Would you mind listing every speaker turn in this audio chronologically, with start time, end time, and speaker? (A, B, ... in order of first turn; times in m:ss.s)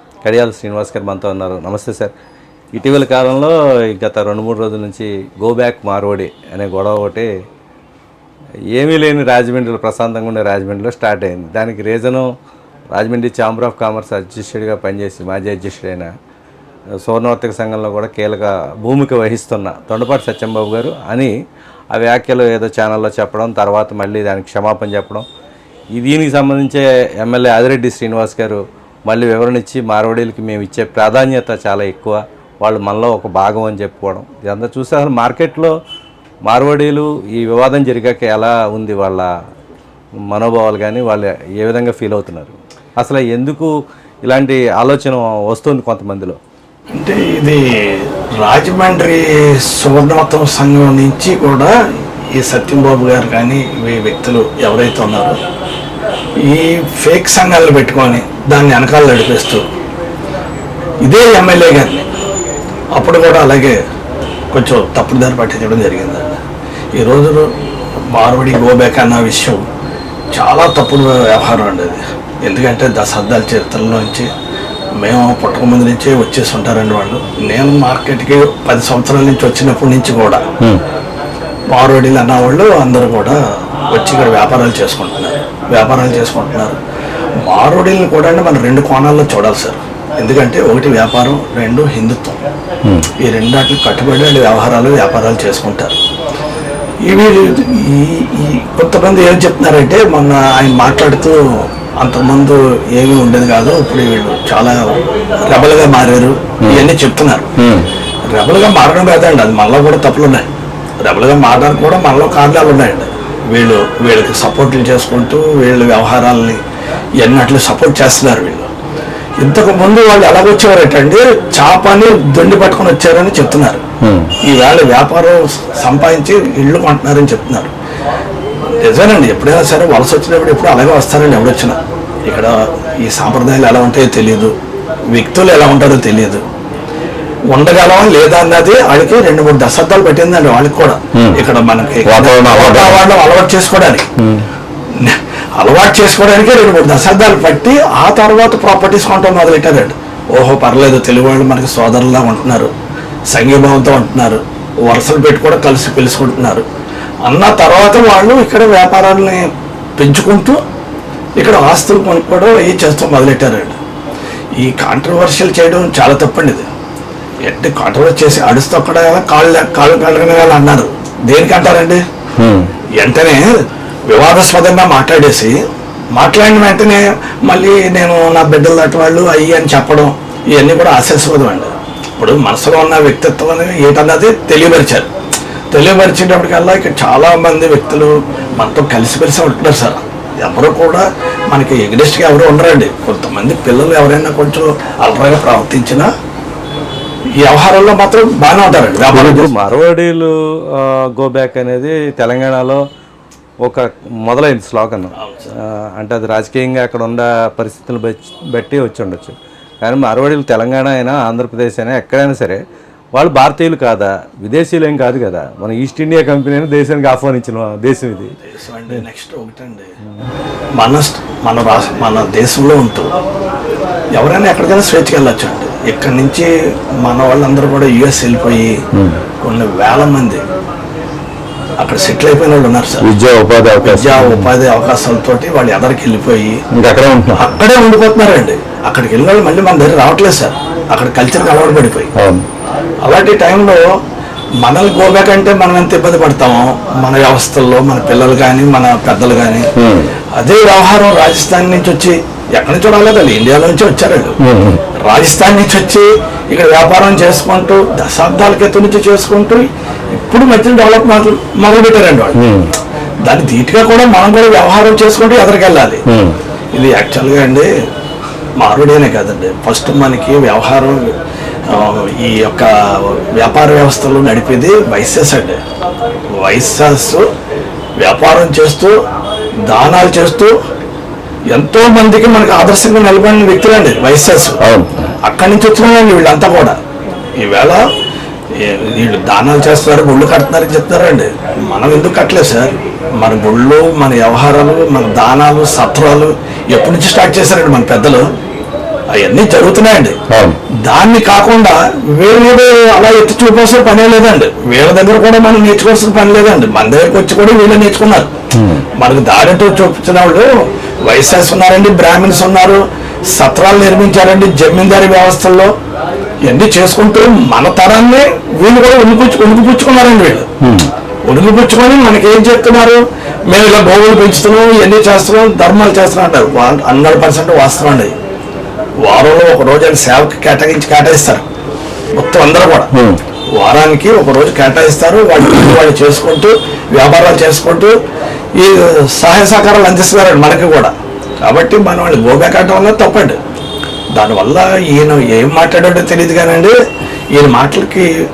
0:00.2-0:02.1 A
0:02.7-0:07.3 A
0:08.7-0:12.2 A
0:12.9-0:16.1 A
0:17.0-0:21.3 A
0:21.9-0:25.2 A
0:25.9-0:35.7 A
0:36.5-0:39.3 A
0:40.3-0:43.7 A
0:44.2-0:46.4 A
0:46.9-0:51.7 B
0:52.3-0:55.4 B
0:56.4-0:59.6 B
1:01.0-1:02.1 B
1:02.9-1:03.8 B
1:04.5-1:06.4 B
1:07.0-1:07.5 B
1:08.1-1:09.6 B
1:10.3-1:14.3 B
1:15.0-1:20.4 B
1:21.7-1:26.8 B
1:27.4-1:32.4 B
1:33.2-1:36.0 B
1:37.0-1:47.5 B
1:46.6-1:46.9 A
1:47.6-1:47.9 A
1:48.3-1:50.4 B
1:51.0-1:56.6 B
1:57.2-1:58.7 B
1:59.4-2:03.8 B
2:04.0-2:04.3 A
2:04.4-2:07.7 B
2:08.8-2:14.5 B
2:15.1-2:16.4 B
2:17.5-2:24.1 B
2:22.0-2:23.0 A
2:24.2-2:24.4 A
2:25.0-2:32.7 B
2:33.3-2:36.6 B
2:37.3-2:40.6 B
2:41.4-2:43.8 B
2:44.6-2:46.7 B
2:47.5-2:52.0 B
2:52.4-2:52.7 A
2:53.0-2:53.4 B
2:54.1-2:55.6 B
2:56.1-3:05.1 B
3:05.7-3:16.1 B
3:17.4-3:19.6 B
3:19.1-3:22.8 A
3:23.6-3:32.6 A
3:25.2-3:25.5 B
3:33.1-3:38.3 A
3:38.4-3:39.9 B
3:40.8-3:43.1 B
3:44.1-3:46.5 B
3:47.0-3:48.7 B
3:49.4-3:50.4 B
3:51.8-3:53.0 B
3:53.0-3:54.5 A
3:53.8-3:56.6 B
3:56.7-3:57.5 A
3:57.3-4:02.1 B
4:02.2-4:02.4 A
4:03.0-4:04.0 B
4:04.6-4:09.7 B
4:09.8-4:10.1 A
4:10.4-4:14.3 B
4:14.4-4:14.8 A
4:15.0-4:19.7 B
4:20.2-4:22.4 B
4:22.3-4:22.7 A
4:23.2-4:26.0 B
4:26.1-4:26.4 A
4:26.7-4:27.7 B
4:28.6-4:31.0 B
4:31.7-4:35.6 B
4:36.4-4:37.2 B
4:38.0-4:39.0 B
4:39.7-4:40.5 B
4:41.5-4:44.6 B
4:44.6-4:45.1 A
4:45.2-4:46.8 B
4:47.4-4:47.8 B
4:48.6-4:58.2 B
4:59.1-5:00.2 B
5:00.3-5:00.6 A
5:00.8-5:08.3 B
5:08.6-5:08.8 A
5:09.0-5:10.5 B
5:11.0-5:12.8 B
5:13.3-5:15.7 B
5:16.5-5:20.5 B
5:20.6-5:20.9 A
5:21.3-5:28.1 B
5:29.0-5:31.4 B
5:32.2-5:32.9 B
5:33.6-5:37.9 B
5:38.6-5:40.9 B
5:41.4-5:43.4 B
5:44.1-5:46.7 B
5:47.3-5:48.1 B